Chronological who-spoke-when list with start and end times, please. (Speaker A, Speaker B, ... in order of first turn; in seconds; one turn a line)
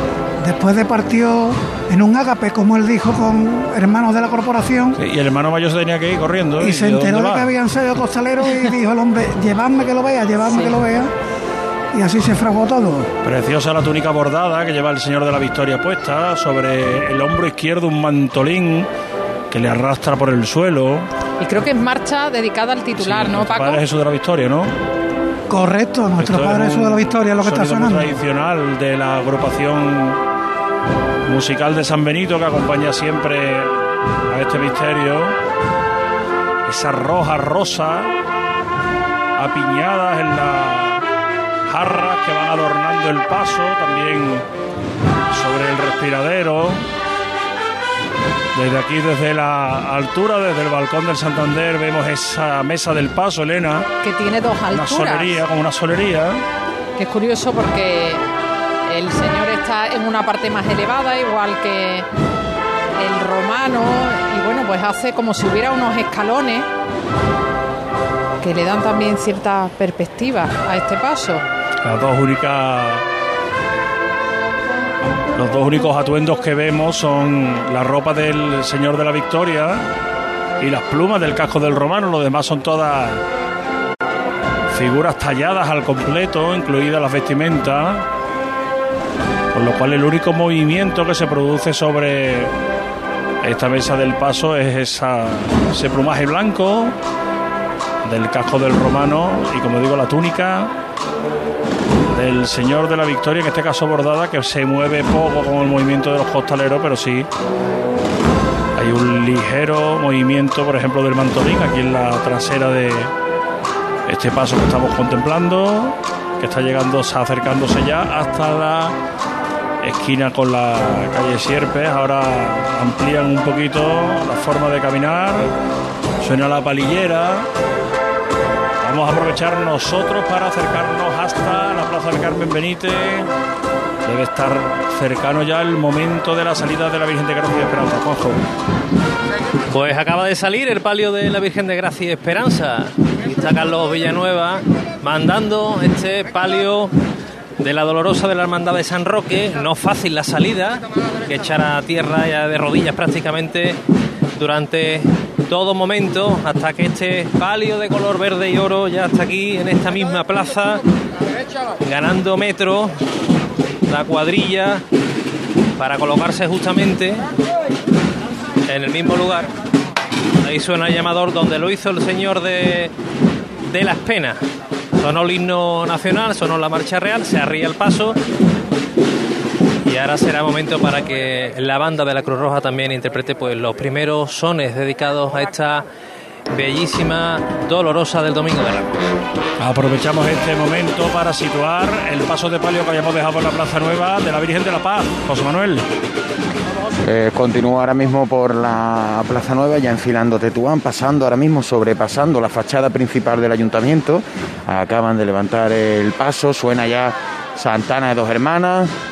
Speaker A: 0.4-5.0
Speaker B: 5.0-7.5
Speaker A: 6.6-11.1
Speaker C: 10.5-10.8
Speaker A: 11.9-13.1
Speaker B: 13.2-18.9
Speaker B: 19.5-21.1
Speaker C: 21.4-23.8
Speaker B: 23.0-24.7
Speaker A: 25.5-28.2
Speaker B: 26.2-30.2
Speaker B: 31.3-33.8
Speaker B: 34.3-35.4
Speaker B: 36.7-38.1
Speaker B: 39.4-41.0
Speaker B: 41.7-44.5
Speaker B: 45.3-46.9
Speaker B: 48.5-53.9
Speaker C: 54.0-55.4
Speaker B: 54.7-56.4
Speaker C: 57.0-58.2
Speaker C: 58.9-62.1
Speaker C: 63.0-66.7
Speaker C: 68.4-71.5
Speaker B: 71.8-73.0
Speaker B: 75.3-79.9
Speaker B: 80.6-83.2
Speaker B: 84.7-88.1
Speaker B: 89.5-92.5
Speaker B: 93.4-97.0
Speaker B: 98.0-100.7
Speaker B: 102.1-107.3
Speaker B: 108.8-113.1
Speaker B: 114.1-119.0
Speaker B: 119.8-125.5
Speaker B: 126.2-127.5
Speaker B: 128.8-133.3
Speaker B: 134.1-138.4
Speaker D: 139.7-146.9
Speaker D: 147.6-153.8
Speaker D: 154.4-160.8
Speaker D: 161.8-162.9
Speaker D: 163.9-164.8
Speaker D: 165.8-167.2
Speaker D: 168.7-169.5
Speaker D: 170.4-172.9
Speaker D: 173.7-174.4
Speaker D: 175.0-178.2
Speaker D: 179.8-185.8
Speaker D: 186.5-189.1
Speaker B: 189.6-195.9
Speaker E: 197.0-208.9